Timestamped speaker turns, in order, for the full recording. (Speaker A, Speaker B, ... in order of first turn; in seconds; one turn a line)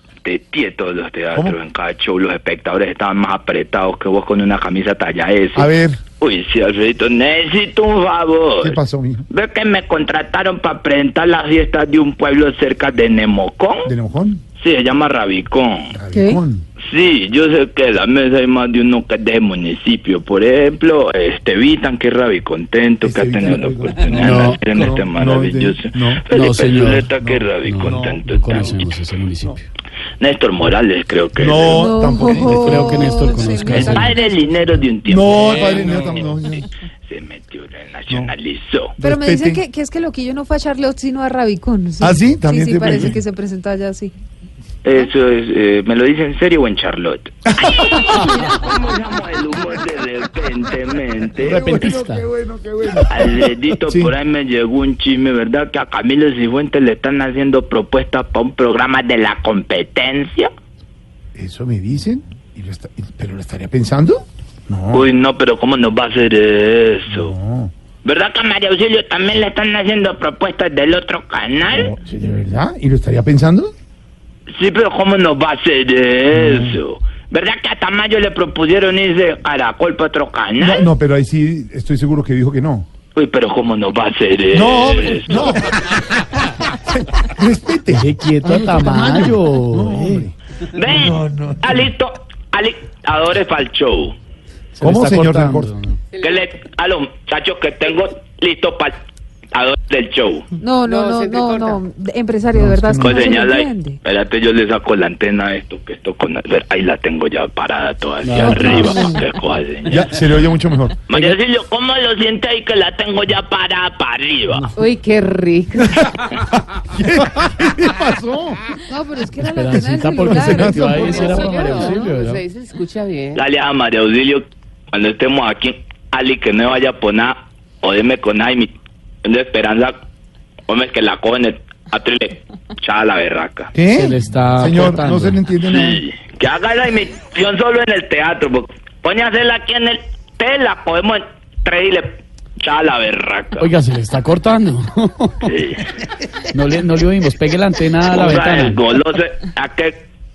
Speaker A: 0.2-8.8
Speaker B: 1.3-1.6
Speaker B: 5.5-6.0
Speaker B: 8.6-9.2
Speaker A: 9.3-13.9
Speaker B: 13.8-14.4
Speaker A: 14.6-16.0
Speaker B: 15.9-16.6
Speaker C: 16.1-16.4
Speaker A: 16.8-28.9
Speaker B: 23.0-26.3
Speaker D: 24.1-24.6
Speaker D: 26.3-29.6
Speaker B: 27.2-28.2
Speaker A: 30.2-31.9
Speaker B: 31.4-34.1
Speaker C: 31.7-34.5
Speaker D: 32.5-34.2
Speaker A: 33.6-36.2
Speaker B: 35.0-36.7
Speaker A: 37.0-39.0
Speaker B: 39.0-39.6
Speaker C: 39.0-44.1
Speaker B: 42.0-43.2
Speaker A: 44.8-51.8
Speaker B: 47.7-48.1
Speaker B: 51.4-54.1
Speaker D: 51.4-52.2
Speaker A: 53.1-60.5
Speaker B: 61.3-65.1
Speaker A: 64.9-67.3
Speaker B: 67.1-67.7
Speaker A: 68.0-71.9
Speaker B: 71.7-73.7
Speaker A: 74.5-80.9
Speaker B: 76.3-76.8
Speaker B: 80.6-82.9
Speaker A: 83.1-85.6
Speaker B: 84.5-90.3
Speaker D: 87.9-90.3
Speaker A: 90.7-94.2
Speaker B: 90.9-91.9
Speaker D: 94.7-96.0
Speaker B: 94.8-95.7
Speaker A: 96.2-99.0
Speaker A: 99.5-100.5
Speaker C: 100.6-104.0
Speaker E: 100.8-101.8
Speaker B: 102.5-103.4
Speaker A: 103.0-110.1
Speaker D: 108.2-109.2
Speaker C: 108.4-109.2
Speaker B: 109.9-111.4
Speaker A: 111.1-114.7
Speaker E: 114.7-116.0
Speaker B: 115.8-118.6
Speaker C: 118.9-122.1
Speaker D: 119.3-122.4
Speaker B: 120.2-121.3
Speaker E: 121.2-123.4
Speaker A: 123.3-130.0
Speaker A: 130.7-133.7
Speaker B: 133.7-136.0
Speaker D: 133.9-135.4
Speaker A: 135.6-143.7
Speaker D: 143.6-145.6
Speaker A: 145.4-145.9
Speaker D: 146.5-148.8
Speaker A: 148.1-150.0